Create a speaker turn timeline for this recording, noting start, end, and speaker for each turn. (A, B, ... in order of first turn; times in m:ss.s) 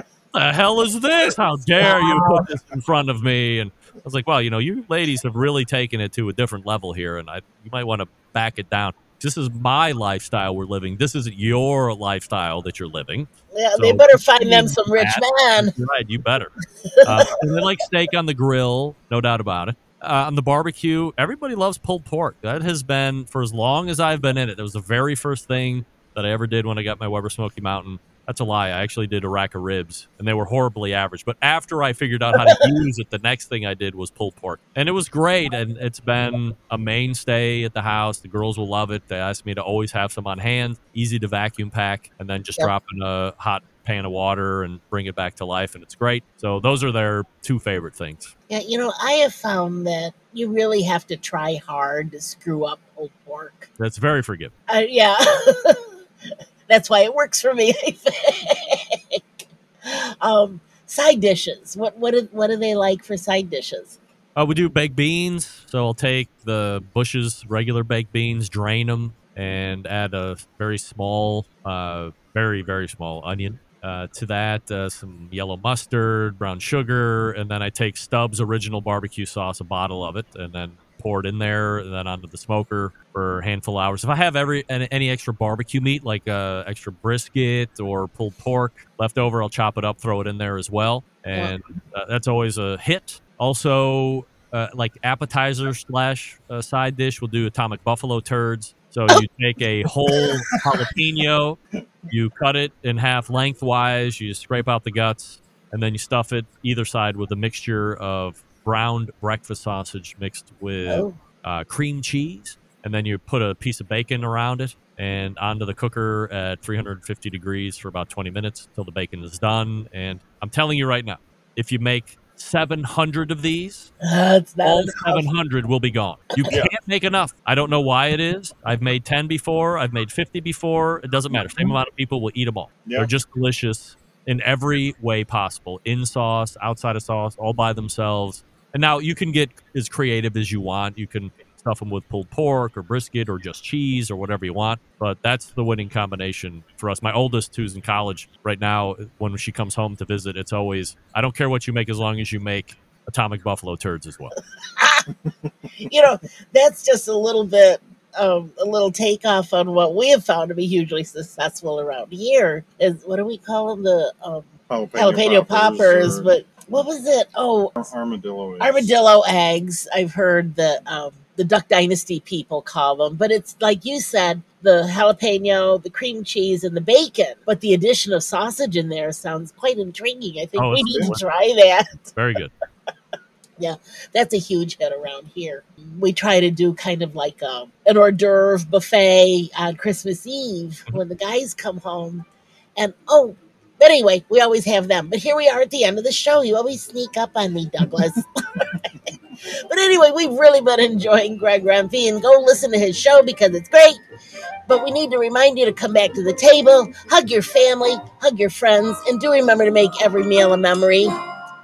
0:00.3-0:16.5 A
0:01.8-0:02.4 B
0:13.5-0:15.7 B
0:16.9-0:17.3 B
0:17.0-0:48.3 A
0:32.4-0:32.7 B
0:48.5-0:53.7 B
0:53.8-0:54.5 A
0:54.7-0:55.8 B
0:56.7-0:59.2 B
0:59.8-1:04.0 B
1:04.4-1:41.6 A
1:42.1-2:03.9 A
1:50.9-1:51.2 B
2:04.0-2:05.2 B
2:04.6-2:34.3 A
2:11.3-2:11.7 C
2:12.8-2:13.1 C
2:34.8-2:35.1 B
2:35.8-2:47.7 B
2:44.7-2:46.4 C
2:47.8-2:48.9 C
2:48.6-3:02.1 B
3:00.6-3:01.2 A
3:02.1-3:02.5 A
3:03.6-3:12.2 B
3:12.8-3:18.9 B
3:19.7-3:24.0 B
3:24.7-3:31.1 B